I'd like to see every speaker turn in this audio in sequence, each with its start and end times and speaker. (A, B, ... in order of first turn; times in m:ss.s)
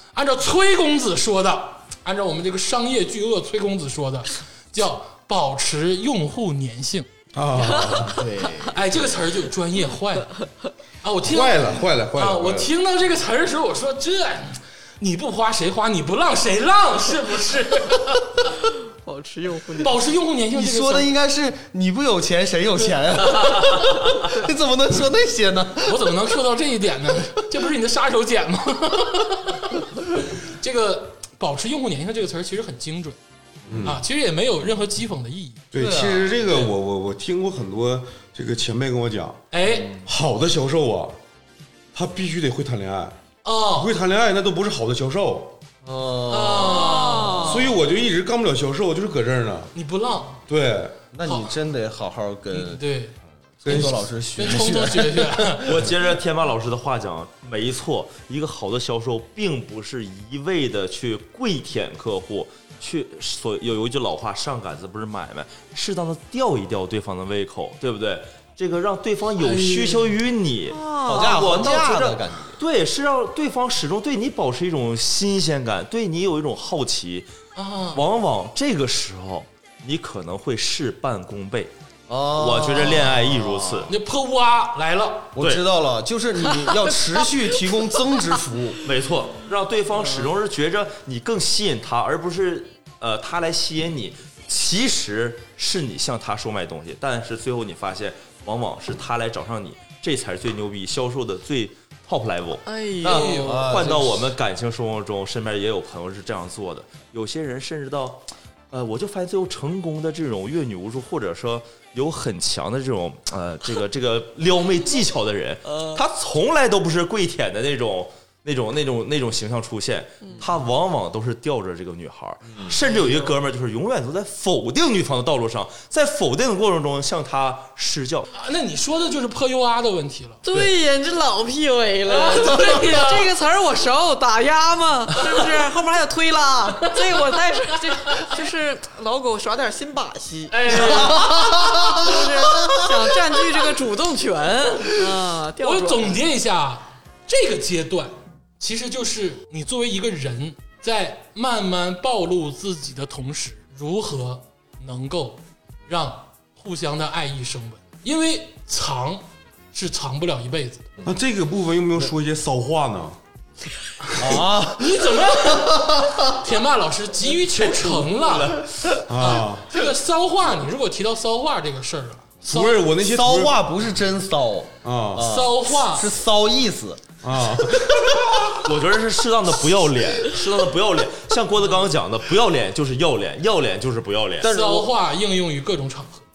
0:00.1-0:07.1 A
0:07.3-0:08.3 B
0:08.1-0:08.8 C
0:08.7-0:10.3 A
0:11.0-0:18.5 A
0:11.2-0:12.7 B
0:19.0-0:20.0 D
0:19.8-0:21.1 A
0:20.5-0:26.1 C
0:25.8-0:33.2 A
0:33.7-0:34.0 B
0:33.8-0:36.7 A
0:35.7-0:39.4 B
0:35.8-0:36.1 C
0:39.5-0:40.0 A
0:39.9-0:41.2 B
0:41.9-0:43.2 B
0:43.4-0:44.0 A
0:43.7-0:45.6 B
0:45.8-0:47.2 C
0:46.3-0:47.6 A
0:46.6-0:47.7 D
0:47.4-0:49.7 B
0:49.7-0:50.4 A
0:50.5-0:51.0 B
0:51.1-0:52.8 C
0:51.2-0:51.6 A
0:52.5-0:53.2 A
0:53.6-0:55.6 C
0:53.6-0:54.0 B
0:53.7-0:55.8 A
0:55.6-1:17.3 E
1:09.4-1:10.1 A
1:10.7-1:11.7 D
1:11.0-1:12.6 C
1:17.6-1:18.0 A
1:17.9-1:21.7 E
1:22.1-1:23.9 C
1:22.3-1:23.9 E
1:23.9-1:25.3 A
1:25.3-1:28.8 C
1:25.4-1:25.6 E
1:28.8-2:08.3 E
1:30.0-1:30.3 D
1:42.6-1:43.6 D
1:43.0-1:43.7 A
1:43.3-1:44.3 C
2:00.2-2:00.5 D
2:08.3-2:10.4 A
2:10.4-2:26.2 D
2:12.1-2:13.3 A
2:18.0-2:18.3 A
2:20.5-2:22.1 A
2:20.9-2:22.0 C
2:25.6-2:40.8 A
2:41.0-2:43.2 B
2:44.0-2:48.6 A
2:44.2-2:46.4 C
2:47.6-2:49.0 C
2:49.1-2:49.6 B
2:49.2-2:52.9 A
2:52.4-2:53.6 B
2:53.0-2:57.1 C
2:54.8-2:55.3 B
2:55.2-2:56.1 A
2:57.2-2:58.4 B
2:58.6-3:04.5 E
3:04.4-3:04.9 C
3:04.4-3:06.2 A